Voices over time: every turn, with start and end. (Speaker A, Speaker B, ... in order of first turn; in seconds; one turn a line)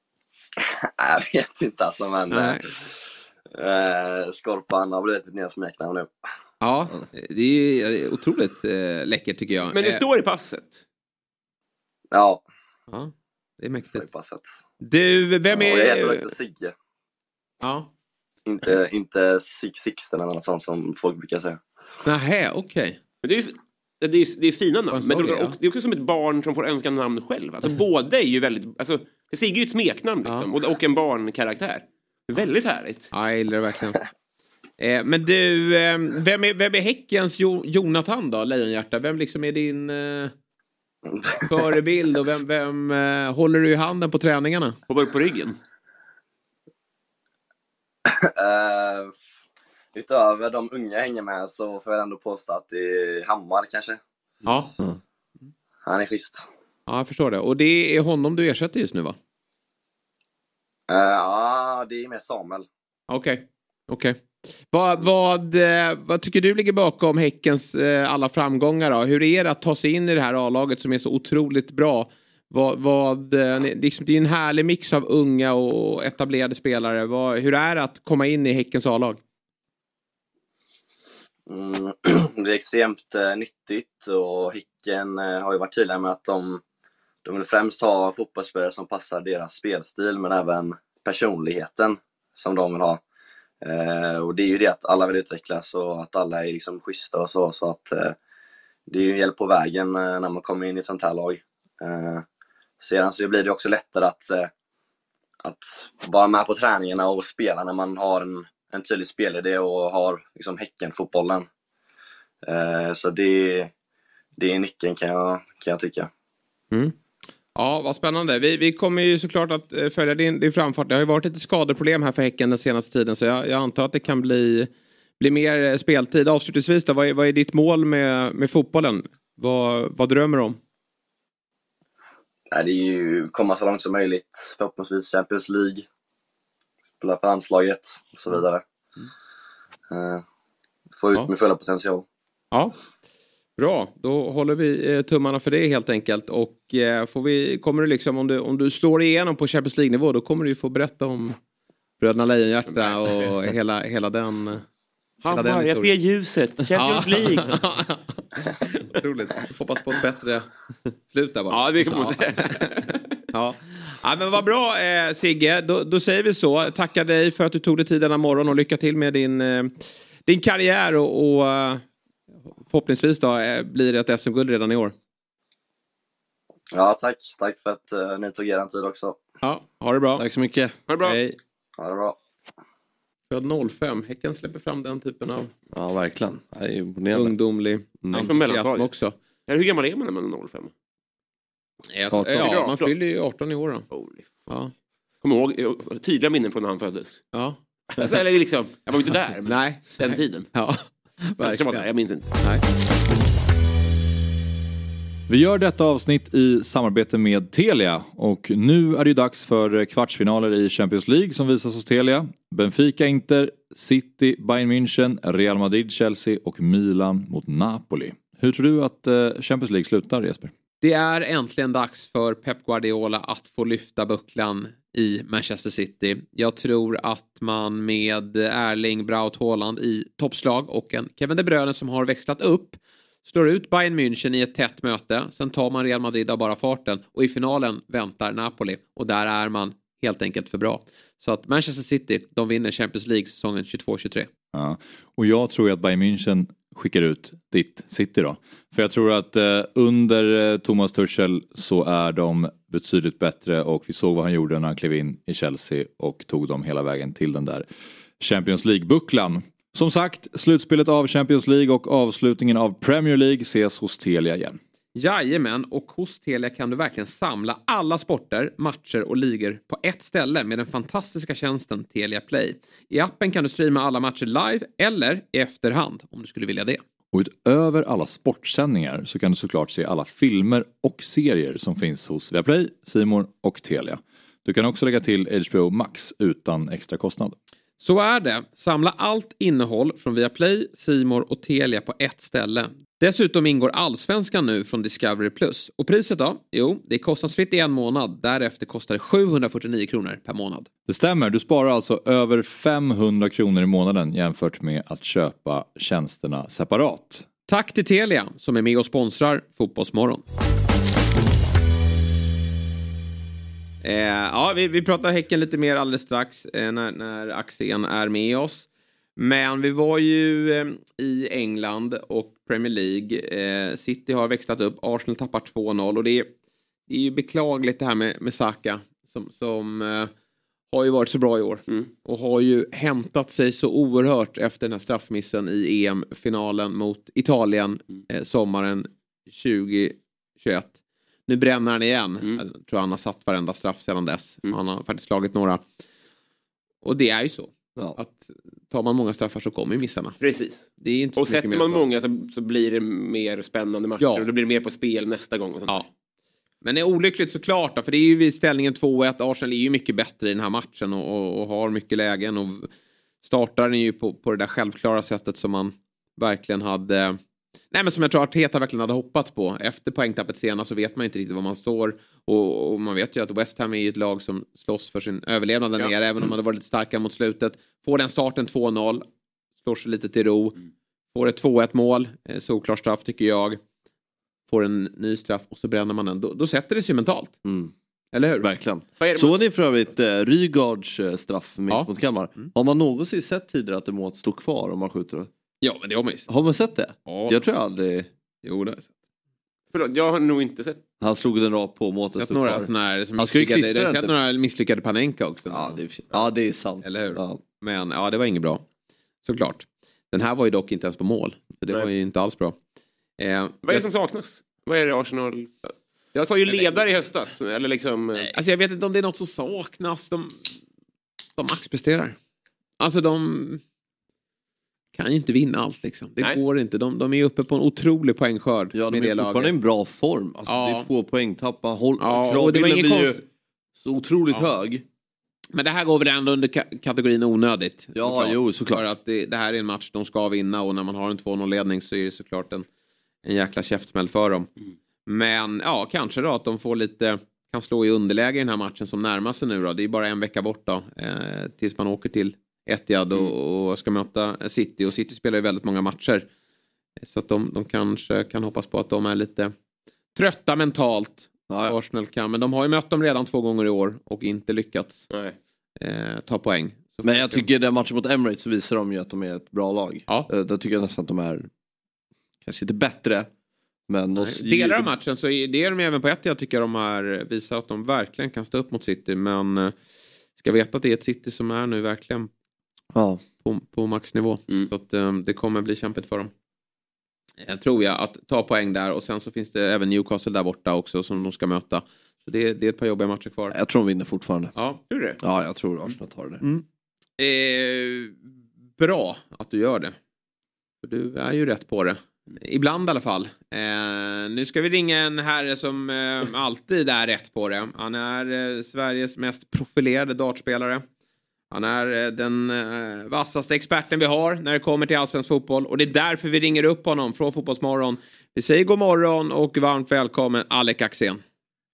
Speaker A: 0.6-3.0
Speaker B: 2.3-2.6
Speaker A: 3.5-6.1
Speaker B: 6.6-10.0
Speaker C: 9.7-10.8
Speaker A: 12.1-12.4
Speaker B: 12.9-14.1
Speaker A: 13.9-14.4
Speaker B: 14.8-16.3
Speaker A: 15.5-16.7
Speaker B: 17.6-17.9
Speaker A: 18.5-21.6
Speaker B: 22.1-23.0
Speaker C: 23.2-33.1
Speaker B: 24.9-25.6
Speaker B: 33.1-34.0
Speaker B: 34.8-40.3
Speaker A: 41.1-41.5
Speaker B: 41.4-44.8
Speaker C: 44.9-45.6
Speaker A: 48.1-49.1
Speaker A: 49.9-54.0
Speaker B: 54.4-54.7
Speaker A: 55.9-56.4
Speaker B: 56.9-59.2
Speaker A: 60.9-62.7
Speaker B: 63.1-64.2
Speaker B: 64.7-79.2
Speaker A: 81.5-86.6
Speaker A: 87.2-93.0
Speaker A: 93.6-98.2
Speaker A: 98.9-102.2
Speaker A: 102.8-104.5
Speaker A: 105.4-111.5
Speaker A: 112.4-113.7
Speaker A: 114.4-116.1
Speaker B: 117.5-130.6
Speaker A: 132.5-135.8
Speaker A: 137.0-138.6
Speaker A: 139.9-140.2
Speaker A: 140.9-142.1
Speaker B: 143.6-151.4
Speaker B: 152.0-154.6
Speaker C: 152.7-153.3
Speaker C: 155.2-157.6
Speaker B: 155.3-155.9
Speaker B: 156.8-158.1
Speaker B: 158.7-160.5
Speaker B: 161.1-162.8
Speaker C: 161.5-162.9
Speaker B: 163.3-169.8
Speaker B: 170.3-171.8
Speaker B: 172.7-174.9
Speaker A: 176.7-179.2
Speaker B: 179.4-180.2
Speaker D: 180.2-180.7
Speaker C: 180.9-181.2
Speaker B: 181.0-181.4
Speaker A: 181.8-182.2
Speaker B: 183.3-185.5
Speaker D: 185.7-187.3
Speaker B: 187.1-189.1
Speaker D: 188.0-188.3
Speaker C: 188.2-188.9
Speaker C: 189.5-190.7
Speaker B: 191.9-193.8
Speaker D: 192.1-192.5
Speaker C: 192.4-192.9
Speaker C: 193.9-194.5
Speaker B: 194.5-194.7
Speaker C: 195.2-197.3
Speaker B: 197.3-198.1
Speaker C: 197.9-200.5
Speaker B: 199.5-202.6
Speaker C: 201.4-202.3
Speaker E: 205.3-220.5
Speaker B: 220.8-244.3
Speaker E: 244.5-257.7
Speaker E: 258.2-264.6
Speaker B: 265.0-276.8
Speaker E: 277.1-287.4
Speaker B: 287.8-300.7
Speaker E: 300.9-307.3
Speaker B: 307.5-310.2
Speaker B: 313.8-326.3
Speaker B: 326.9-330.1
Speaker B: 330.7-340.7
Speaker B: 341.3-345.6
Speaker B: 346.8-350.2
Speaker C: 350.2-355.8
Speaker B: 350.8-351.8
Speaker B: 354.0-354.3
Speaker B: 356.6-362.7
Speaker B: 363.2-367.2
Speaker B: 367.7-379.1
Speaker B: 379.6-380.6
Speaker B: 381.1-383.6
Speaker B: 384.5-387.4
Speaker D: 387.4-387.7
Speaker B: 388.1-388.4
Speaker D: 388.4-395.3
Speaker C: 389.0-389.4
Speaker B: 391.7-392.5
Speaker B: 395.6-396.3
Speaker D: 396.3-398.1
Speaker B: 397.1-397.4
Speaker B: 398.4-398.9
Speaker C: 399.7-400.8
Speaker D: 401.0-404.1
Speaker B: 402.2-406.2
Speaker D: 405.5-407.4
Speaker B: 406.8-408.6
Speaker B: 409.2-412.6
Speaker B: 413.2-413.8
Speaker C: 413.6-418.3
Speaker B: 416.5-416.9
Speaker B: 418.2-420.6
Speaker B: 421.4-422.2
Speaker B: 422.8-423.6
Speaker B: 424.9-429.5
Speaker D: 428.7-433.2
Speaker B: 430.5-430.9
Speaker B: 432.0-433.2
Speaker D: 433.8-434.8
Speaker B: 435.6-442.7
Speaker D: 437.9-438.9
Speaker B: 443.2-444.5
Speaker B: 445.1-456.3
Speaker B: 457.0-459.5
Speaker B: 460.2-465.1
Speaker D: 461.5-461.8
Speaker B: 465.8-467.5
Speaker D: 467.0-471.5
Speaker D: 472.4-473.3
Speaker D: 473.9-474.9
Speaker B: 474.2-479.7
Speaker B: 480.4-482.3
Speaker D: 482.9-483.2
Speaker B: 483.4-486.3
Speaker B: 487.4-493.6
Speaker D: 493.5-494.6
Speaker C: 494.9-495.2
Speaker D: 495.2-496.4
Speaker B: 497.2-498.2
Speaker B: 498.8-499.9
Speaker B: 500.8-510.8
Speaker B: 511.5-521.2